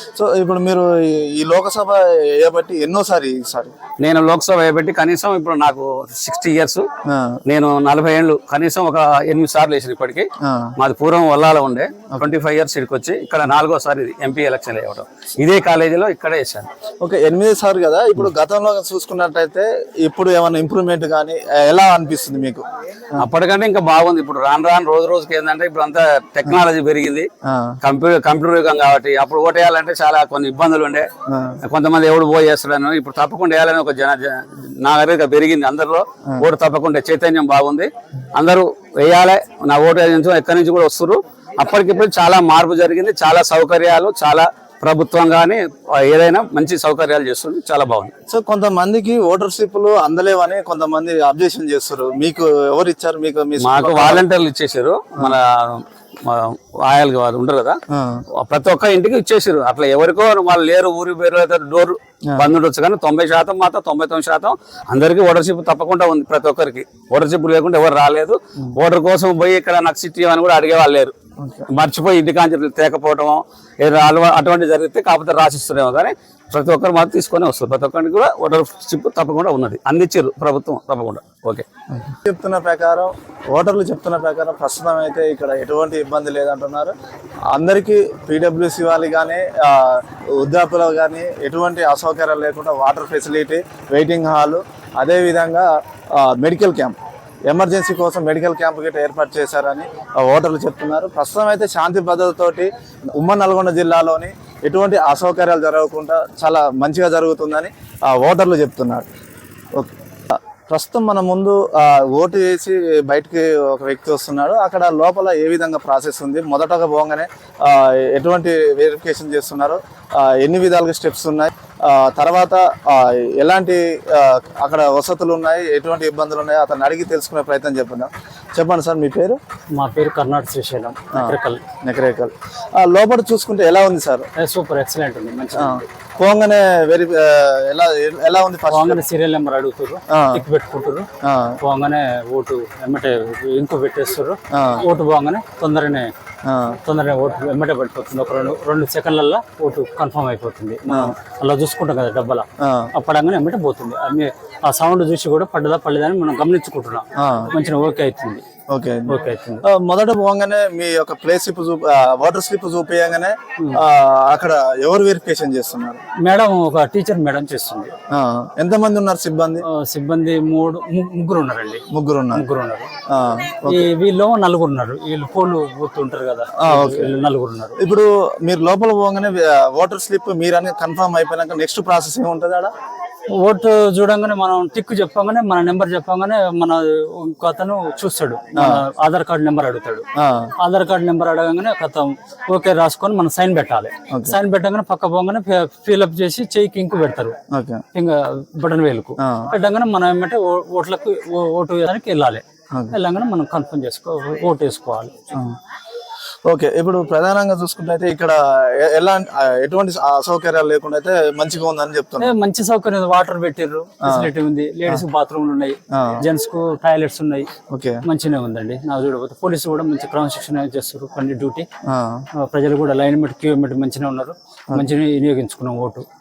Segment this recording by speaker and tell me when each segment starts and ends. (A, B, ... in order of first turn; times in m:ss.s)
0:00.2-0:03.7 A
0:04.0-0:06.8 B
0:07.0-0:07.4 A
0:07.4-0:16.7 B
0:10.4-0:10.7 A
0:17.0-0:23.2 A
0:23.2-0:27.3 B
0:27.4-0:27.8 A
0:27.8-0:31.1 B
0:31.3-0:31.6 A
0:31.6-0:48.1 B
0:48.3-0:54.2 A
0:53.6-0:57.8 B
0:57.9-0:58.2 A
0:58.4-1:11.1 B
1:11.4-1:11.7 A
1:11.7-1:21.6 B
1:21.9-1:26.9 A
1:27.5-1:37.0 A
1:37.5-1:49.0 A
1:49.8-2:09.4 A
2:09.8-2:11.6 C
2:11.1-2:14.3 A
2:14.4-2:15.8 C
2:15.5-2:19.0 A
2:18.7-2:21.0 C
2:20.1-2:20.4 A
2:21.2-2:21.6 A
2:21.6-2:26.1 C
2:24.5-2:24.8 A
2:26.4-2:26.8 A
2:26.8-2:38.4 C
2:30.9-2:31.1 A
2:32.6-2:32.9 A
2:37.2-2:37.5 A
2:38.7-2:46.0 A
2:39.1-2:39.6 C
2:46.2-2:47.9 C
2:48.1-2:49.6 A
2:49.6-2:51.8 C
2:51.9-2:52.4 A
2:52.3-2:52.9 C
2:53.1-2:53.9 A
2:53.6-2:57.8 C
2:56.6-2:57.1 A
2:57.8-3:02.7 A
3:03.3-3:10.0 C
3:08.5-3:08.8 A
3:10.2-3:10.5 A
3:10.6-3:17.3 C
3:14.1-3:14.4 A
3:17.5-3:17.8 A
3:17.9-3:25.1 C
3:19.2-3:19.5 A
3:26.5-3:32.3 A
3:32.2-3:37.5 C
3:34.0-3:34.3 A
3:35.9-3:36.2 A
3:37.7-3:38.0 A
3:38.0-3:41.7 C
3:41.8-3:42.2 A
3:42.4-3:46.0 C